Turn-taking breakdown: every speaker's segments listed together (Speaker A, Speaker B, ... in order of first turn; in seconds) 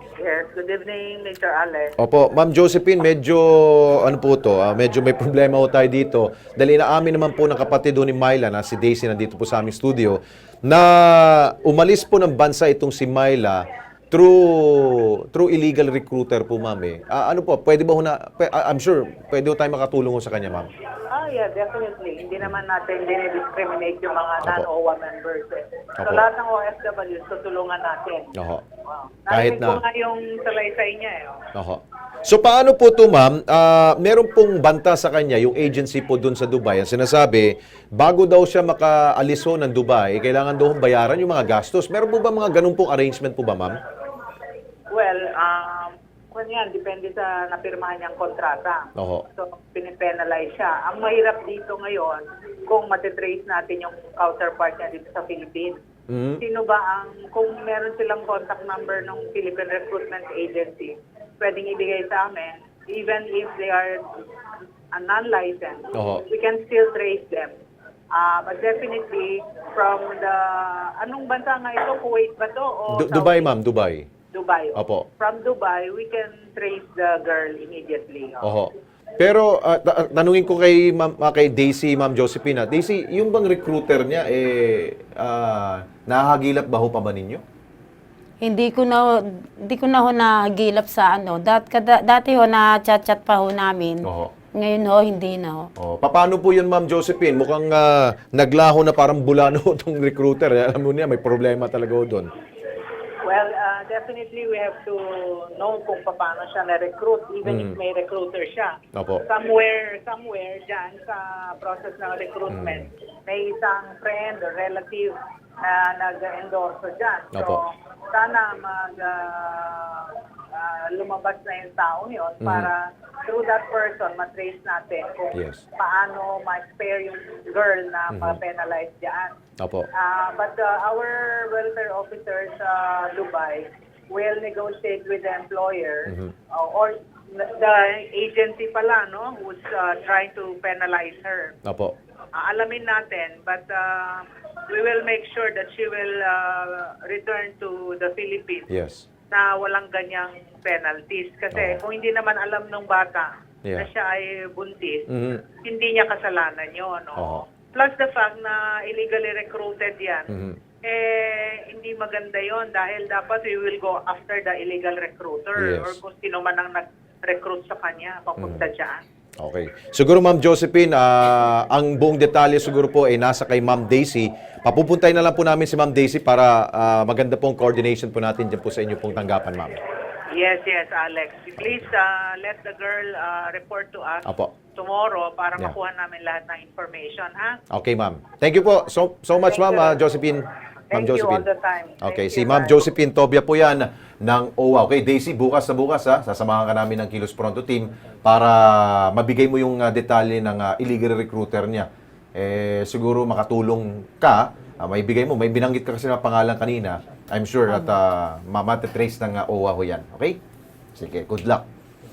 Speaker A: 0.2-1.9, 21.1-28.3, 28.9-31.4, 44.9-55.8, 56.4-64.0, 64.9-67.5, 68.2-73.5, 74.3-78.5, 103.2-129.3, 129.9-141.5, 142.4-148.7, 149.3-155.1, 155.6-160.3, 160.8-169.0, 180.3-187.6, 189.5-190.1, 190.9-192.9
Speaker B: 2.0-20.7, 24.4-24.7, 28.4-28.6, 29.3-29.8, 31.6-43.8, 49.0-49.2, 56.1-56.4, 66.0-66.2, 72.9-74.1, 74.8-75.1, 78.4-87.4, 94.0-94.3, 95.8-102.3, 107.4-107.8, 108.9-109.2, 112.5-112.9, 117.3-117.6, 122.4-122.7, 125.3-125.6, 128.1-128.4, 129.6-129.9, 136.1-136.3, 141.7-141.9, 148.7-149.1, 151.5-151.8, 155.1-155.4, 157.2-157.4, 160.3-160.6, 165.6-166.0, 168.4-168.7, 169.4-179.8, 181.6-181.9, 184.2-184.5, 187.7-191.5, 192.0-210.4, 211.0-211.7
Speaker C: 88.4-95.7